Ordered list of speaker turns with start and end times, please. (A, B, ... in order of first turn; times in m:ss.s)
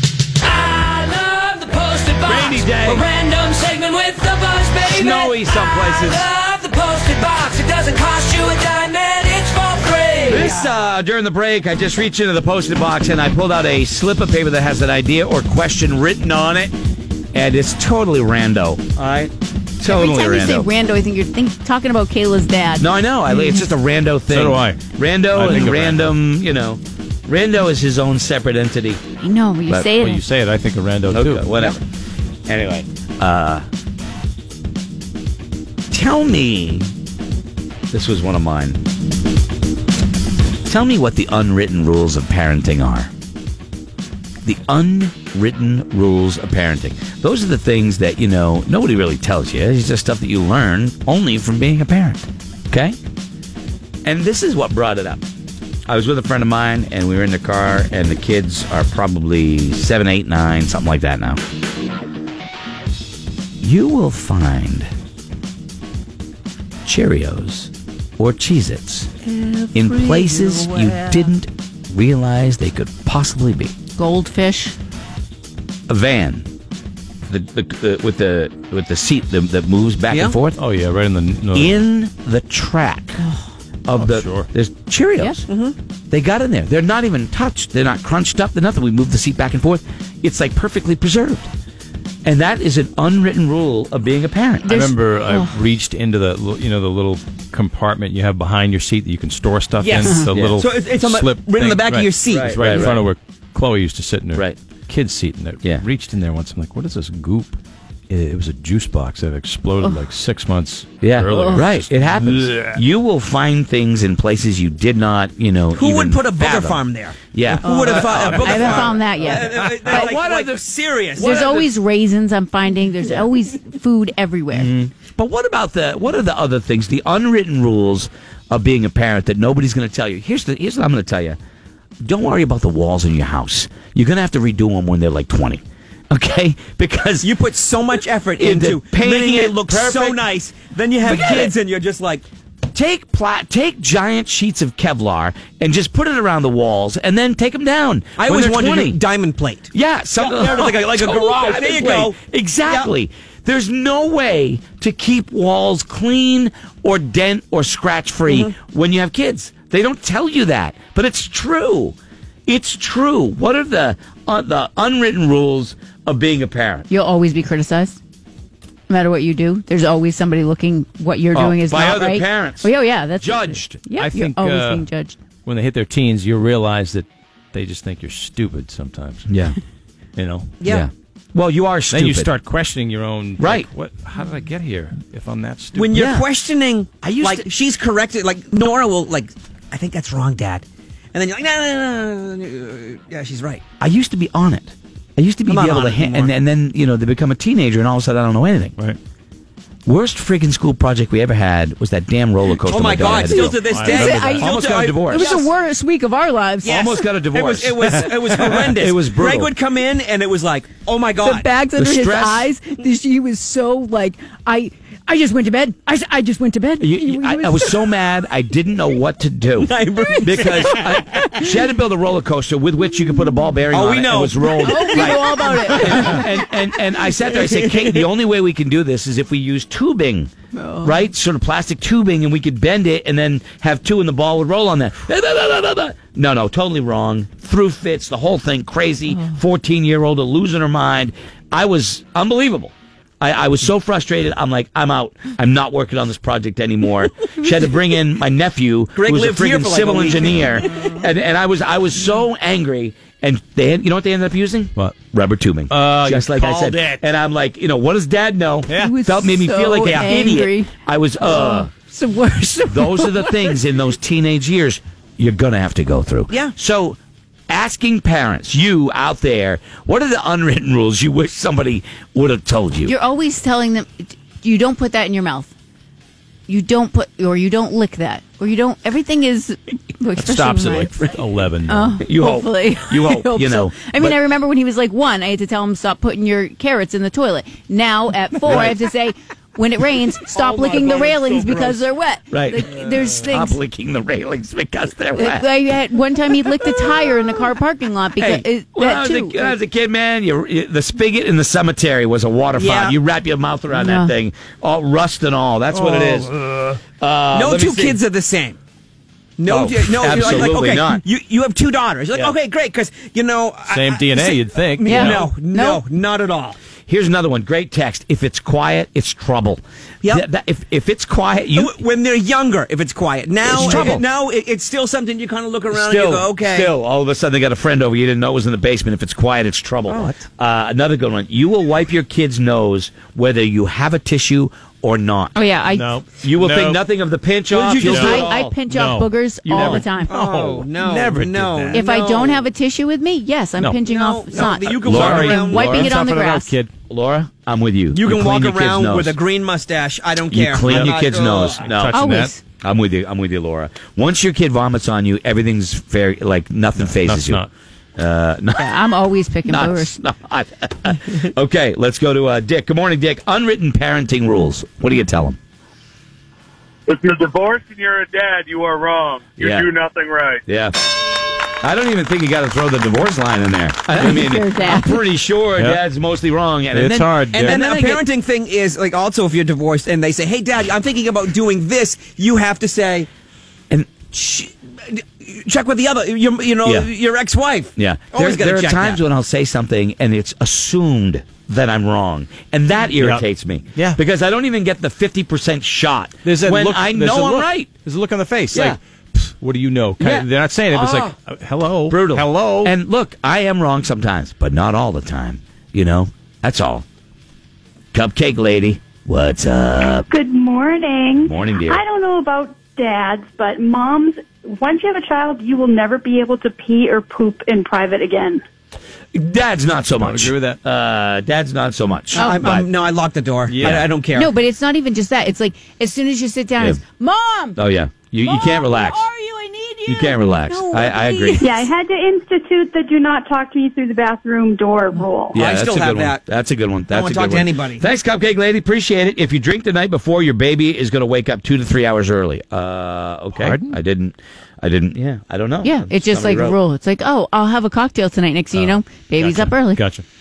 0:00.6-0:02.5 A
0:02.2-0:03.0 B
0:03.0-0:05.0 A
0:04.8-0:06.3 B
0:10.3-0:16.7 B
0:17.3-0:20.7 B
0:19.8-0:23.6 C
0:22.8-0:29.0 B
0:24.3-0:26.2 D
0:29.2-0:30.2 C
0:30.0-0:31.5 D
0:31.1-0:31.8 B
0:32.5-0:33.6 B
0:35.9-0:36.9 B
0:37.9-0:38.8 B
0:40.6-0:43.1 B
0:44.4-0:53.0 B
0:54.0-0:55.2 B
0:55.8-1:01.4 B
1:03.6-1:04.9 B
1:06.8-1:09.2 B
1:09.7-1:13.7 B
1:09.8-1:10.6 C
1:14.0-1:14.7 C
1:15.9-1:16.5 B
1:17.2-1:20.6 B
1:20.1-1:20.4 E
1:20.6-1:21.8 D
1:21.5-1:23.2 B
1:23.2-1:23.5 C
1:23.8-1:25.5 B
1:24.0-1:24.5 D
1:25.5-1:25.7 E
1:26.1-1:31.5 B
1:32.2-1:34.7 B
1:34.6-1:35.5 C
1:34.7-1:52.8 D
1:39.8-1:42.9 E
1:40.3-1:40.6 B
1:42.3-1:43.0 B
1:51.0-2:01.7 B
1:51.4-1:51.6 C
1:55.7-2:01.5 E
1:57.6-2:00.1 C
1:58.0-1:59.8 D
2:01.2-2:04.7 C
2:04.5-2:11.4 B
2:12.0-2:17.3 B
2:17.2-2:22.2 E
2:18.4-2:20.2 B
2:21.0-2:21.5 B
2:22.7-2:29.0 B
2:28.2-2:32.9 E
2:29.7-2:46.9 B
2:46.9-2:48.0 C
2:48.9-2:55.2 C
2:51.3-2:53.8 B
2:53.9-2:54.9 D
2:55.4-2:59.3 D
2:59.3-2:59.6 B
3:00.2-3:00.5 D
3:00.6-3:00.8 E
3:00.6-3:02.3 B
3:01.9-3:06.0 D
3:03.4-3:03.7 B
3:05.7-3:13.6 E
3:05.9-3:06.2 B
3:07.0-3:07.4 B
3:13.8-3:18.8 B
3:15.4-3:16.3 E
3:19.8-3:25.3 B
3:22.6-3:25.5 E
3:23.4-3:24.4 D
3:23.8-3:24.6 C
3:25.1-3:26.7 C
3:26.6-3:31.5 E
3:26.6-3:29.5 B
3:31.2-3:37.4 C
3:31.8-3:32.5 B
3:36.8-3:50.3 B
3:39.6-3:41.4 E
3:43.7-3:46.4 E
3:44.6-3:46.1 C
3:46.9-3:48.1 E
3:50.8-4:21.7 B
4:09.0-4:10.4 E
4:15.7-4:17.0 D
4:18.7-4:19.0 D
4:18.8-4:20.7 C
4:21.3-4:23.5 C
4:22.7-4:32.9 B
4:26.3-4:26.5 E
4:32.9-4:35.5 C
4:36.5-4:41.0 C
4:40.2-4:42.0 D
4:41.7-4:53.6 C
4:42.0-4:44.2 B
4:48.5-4:48.7 B
4:50.3-4:51.8 E
4:52.3-4:55.4 B
4:55.2-4:59.6 C
4:58.7-5:08.0 B
5:02.6-5:03.0 E
5:03.7-5:04.1 C
5:05.7-5:06.3 D
5:07.3-5:08.6 E
5:09.4-5:16.6 E
5:09.5-5:11.0 B
5:13.7-5:15.3 D
5:14.8-5:15.8 C
5:16.9-5:21.7 B
5:21.5-5:26.7 E
5:23.4-5:24.0 B
5:23.6-5:24.0 D
5:25.7-5:35.3 B
5:29.9-5:30.2 E
5:35.3-5:35.9 C
5:35.7-5:36.8 D
5:36.2-5:38.5 B
5:37.5-5:38.1 E
5:37.8-5:41.8 D
5:38.0-5:40.1 C
5:39.4-5:39.8 B
5:40.1-5:42.4 E
5:41.7-5:44.8 C
5:43.8-5:45.7 E
5:44.6-5:46.7 D
5:44.8-5:45.9 B
5:45.5-5:46.5 C
5:46.9-5:49.2 B
5:47.9-5:51.7 E
5:50.3-5:52.0 B
5:50.6-5:51.0 D
5:51.5-5:52.3 D
5:51.9-5:52.4 C
5:52.6-5:57.4 B
5:56.8-5:57.5 D
5:58.0-5:58.9 B
5:58.6-6:00.0 C
5:59.4-6:05.4 B
6:06.9-6:10.4 F
6:09.4-6:09.7 B
6:10.4-6:10.9 B
6:11.4-6:18.0 B
6:14.0-6:14.9 C
6:15.5-6:15.8 D
6:16.7-6:17.6 D
6:17.3-6:23.1 E
6:23.7-6:24.5 B
6:24.4-6:29.0 E
6:27.7-6:37.7 B
6:33.0-6:34.0 D
6:36.2-6:42.7 D
6:38.5-6:38.8 B
6:40.0-6:41.1 B
6:41.9-6:46.8 B
6:47.9-6:50.1 B
6:50.1-6:58.4 G
6:51.2-6:51.8 B
6:59.1-7:02.7 B
7:00.0-7:00.6 D
7:02.1-7:02.5 C
7:02.2-7:04.3 E
7:03.5-7:03.9 D
7:03.6-7:03.9 B
7:04.1-7:07.6 C
7:07.6-7:09.0 B
7:08.2-7:11.4 C
7:09.8-7:11.7 B
7:11.4-7:15.4 G
7:15.3-7:26.6 B
7:15.3-7:16.2 E
7:16.9-7:17.8 E
7:23.3-7:23.8 D
7:25.6-7:29.8 C
7:28.5-7:30.0 D